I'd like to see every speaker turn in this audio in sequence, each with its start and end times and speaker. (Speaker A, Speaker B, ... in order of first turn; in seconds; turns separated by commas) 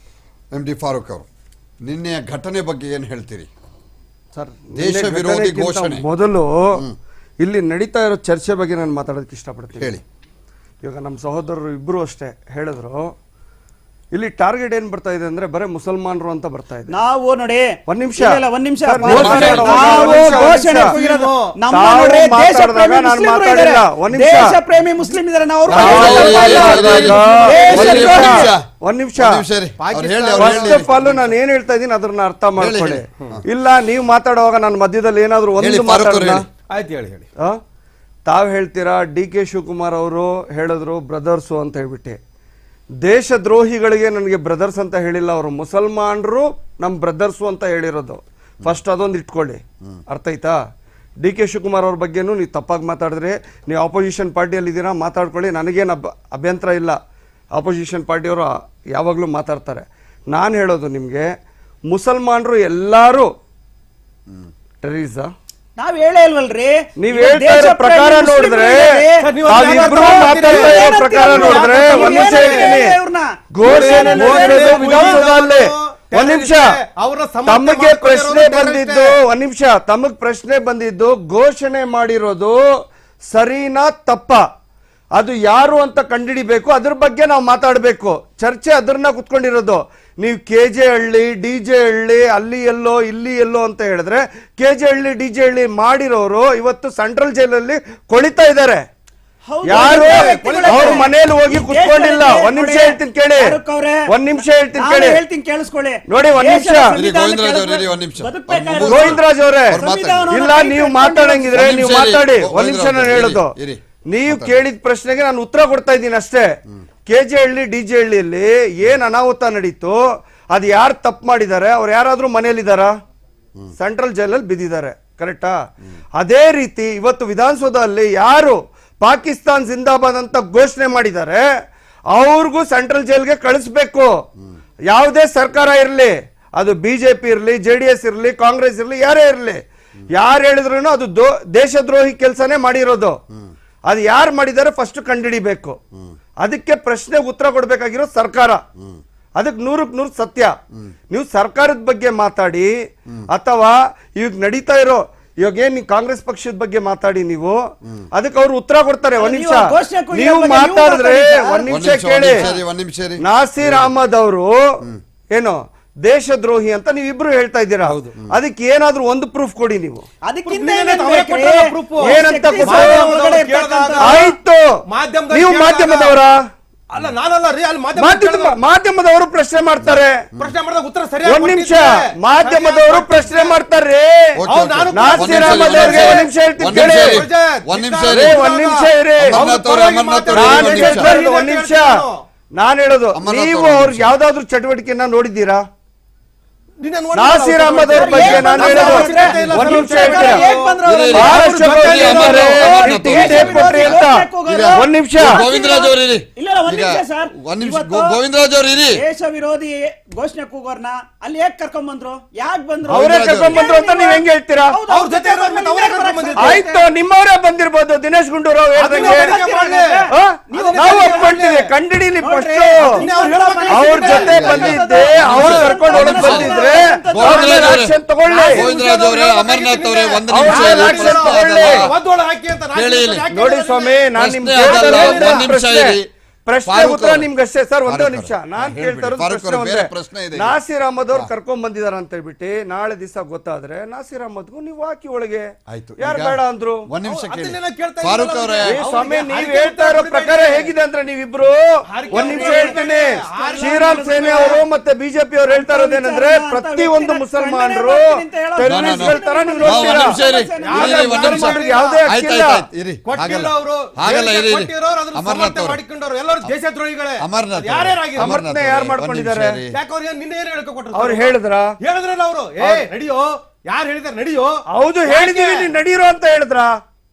Speaker A: 0.5-1.3, Speaker A: 1.8-3.5, Speaker B: 4.3-6.8, Speaker A: 4.7-6.0, Speaker B: 7.4-10.0, Speaker B: 10.8-13.1, Speaker B: 14.1-16.9, Speaker C: 16.9-28.5, Speaker B: 17.9-20.9, Speaker D: 19.0-21.5, Speaker A: 19.1-19.9, Speaker B: 21.7-24.6, Speaker A: 25.7-28.6, Speaker B: 25.7-29.4, Speaker D: 26.2-28.1, Speaker A: 29.2-30.9, Speaker D: 29.8-31.1, Speaker B: 30.4-36.4, Speaker A: 32.6-33.4, Speaker A: 35.6-36.4, Speaker D: 36.7-37.3, Speaker B: 38.2-42.2, Speaker B: 43.0-50.6, Speaker B: 51.2-57.0, Speaker B: 57.5-61.3, Speaker B: 61.9-63.3, Speaker B: 64.8-65.3, Speaker C: 65.8-75.2, Speaker B: 67.0-68.9, Speaker D: 69.2-72.8, Speaker B: 69.4-73.0, Speaker B: 73.5-76.7, Speaker D: 73.6-79.2, Speaker B: 77.5-82.6, Speaker B: 83.3-84.4, Speaker B: 85.1-98.8, Speaker C: 99.4-104.1, Speaker B: 99.6-103.5, Speaker D: 99.7-101.1, Speaker B: 104.1-105.2, Speaker C: 104.7-111.6, Speaker B: 106.1-107.0, Speaker A: 106.9-110.3, Speaker B: 108.8-113.5, Speaker A: 111.5-114.6, Speaker B: 114.1-116.5, Speaker B: 117.1-122.9, Speaker B: 123.8-125.5, Speaker B: 126.2-131.4, Speaker B: 132.1-134.1, Speaker B: 134.9-143.2, Speaker B: 143.9-145.8, Speaker B: 146.4-148.6, Speaker B: 149.3-150.5, Speaker B: 151.1-152.7, Speaker B: 153.3-157.6, Speaker B: 158.1-162.4, Speaker C: 159.2-161.7, Speaker A: 161.7-163.9, Speaker B: 163.2-164.8, Speaker B: 165.3-170.0, Speaker A: 167.9-168.3, Speaker C: 170.2-174.3, Speaker D: 170.4-174.3, Speaker B: 172.0-173.1, Speaker B: 174.0-174.6, Speaker D: 174.9-176.2, Speaker B: 175.3-176.4, Speaker D: 176.9-178.6, Speaker B: 177.9-180.2, Speaker D: 180.4-183.6, Speaker B: 181.2-184.4, Speaker A: 184.4-188.4, Speaker D: 184.5-192.2, Speaker B: 184.9-187.2, Speaker B: 188.1-189.4, Speaker A: 189.2-191.1, Speaker B: 190.3-191.9, Speaker B: 192.6-195.6, Speaker A: 193.1-194.1, Speaker D: 196.8-202.8, Speaker B: 197.1-200.4, Speaker C: 198.0-201.6, Speaker A: 199.0-199.7, Speaker A: 200.8-209.0, Speaker B: 201.1-205.4, Speaker C: 202.3-208.2, Speaker C: 208.9-216.7, Speaker A: 212.9-213.7, Speaker B: 212.9-214.8, Speaker D: 214.9-216.8, Speaker B: 216.3-219.4, Speaker D: 218.8-221.7, Speaker C: 218.9-221.3, Speaker B: 220.1-223.1, Speaker C: 222.2-227.8, Speaker D: 222.8-224.6, Speaker B: 223.7-228.7, Speaker A: 224.1-231.9, Speaker D: 228.3-235.5, Speaker B: 230.3-231.9, Speaker A: 232.7-233.2, Speaker B: 233.3-246.9, Speaker A: 234.2-236.1, Speaker A: 236.7-237.3, Speaker A: 237.8-240.5, Speaker A: 245.7-246.4, Speaker A: 246.9-248.8, Speaker D: 247.0-250.7, Speaker B: 248.6-260.2, Speaker D: 251.9-254.6, Speaker C: 252.1-254.6, Speaker C: 255.5-261.2, Speaker A: 258.6-265.8, Speaker D: 260.6-262.0, Speaker B: 260.7-262.6, Speaker D: 263.0-268.4, Speaker A: 267.2-269.7, Speaker B: 268.1-269.6, Speaker D: 269.7-275.7, Speaker B: 270.9-271.7, Speaker B: 272.6-272.9, Speaker B: 274.7-276.7